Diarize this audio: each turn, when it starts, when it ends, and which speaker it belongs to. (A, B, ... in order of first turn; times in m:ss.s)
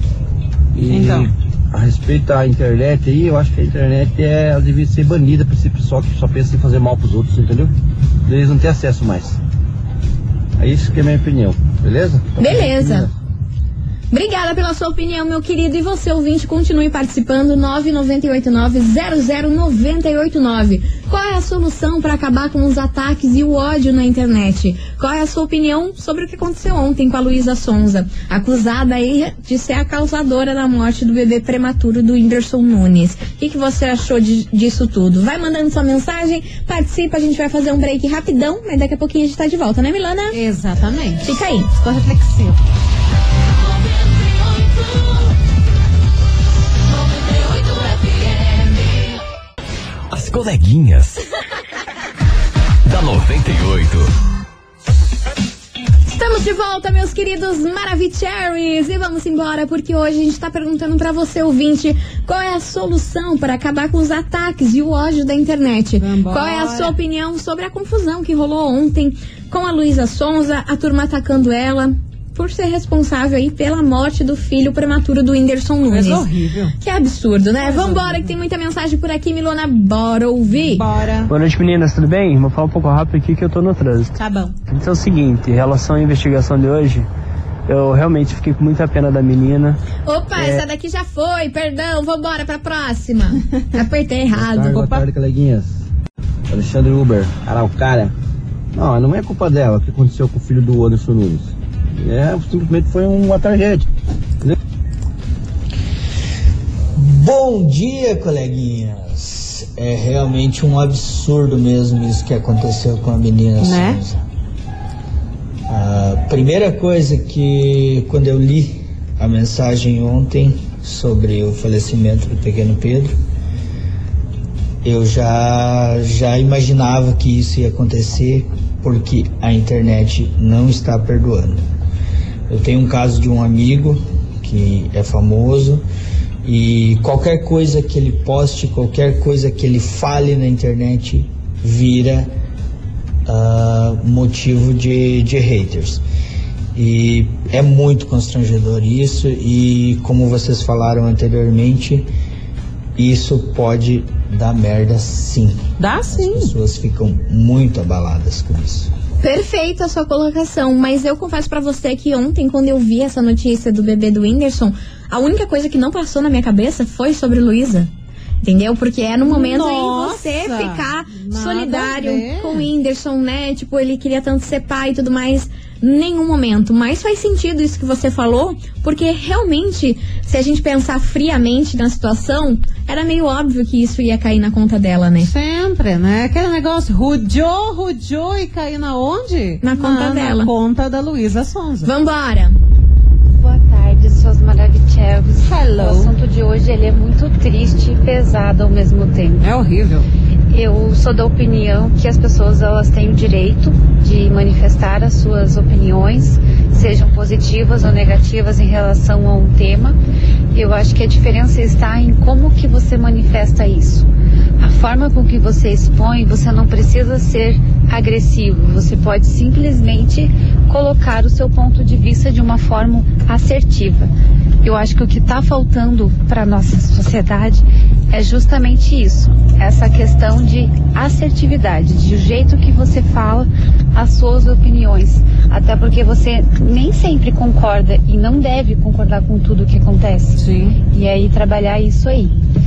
0:00.7-0:07.7 A
0:00.9-0:01.3 B
0:08.2-0:09.4 A
0:10.6-0:13.1 A
0:12.4-0:13.1 C
0:14.1-0:40.4 C
0:40.3-0:42.6 B
0:41.2-0:41.7 C
0:50.1-0:51.2 D
0:52.8-0:54.1 D
0:56.1-1:16.3 C
1:06.0-1:06.9 B
1:15.9-1:16.7 B
1:16.8-1:20.8 C
1:17.6-1:18.3 B
1:20.6-1:21.3 B
1:21.3-1:24.2 E
1:24.2-1:24.5 B
1:24.7-1:27.1 E
1:27.7-1:29.8 E
1:30.0-1:34.8 C
1:30.4-1:30.6 E
1:34.3-1:35.7 A
1:34.8-1:35.0 B
1:36.5-1:38.1 A
1:38.7-1:43.9 A
1:46.9-1:54.2 F
1:53.6-1:54.0 B
1:55.7-2:03.2 F
2:04.8-2:11.6 F
2:12.5-2:15.8 F
2:16.4-2:22.3 F
2:23.2-2:26.0 F
2:26.7-2:32.1 F
2:33.0-2:38.9 F
2:35.8-2:36.5 B
2:39.2-2:47.9 C
2:48.4-3:05.3 C
2:49.2-2:52.7 B
3:05.2-3:11.9 B
3:09.6-3:10.5 C
3:11.8-3:12.6 C
3:13.4-3:19.5 G
3:15.4-3:16.1 B
3:19.4-3:20.1 B
3:20.5-3:30.0 G
3:30.5-3:34.1 G
3:34.6-3:44.1 G
3:44.6-4:02.4 G
4:00.4-4:00.8 B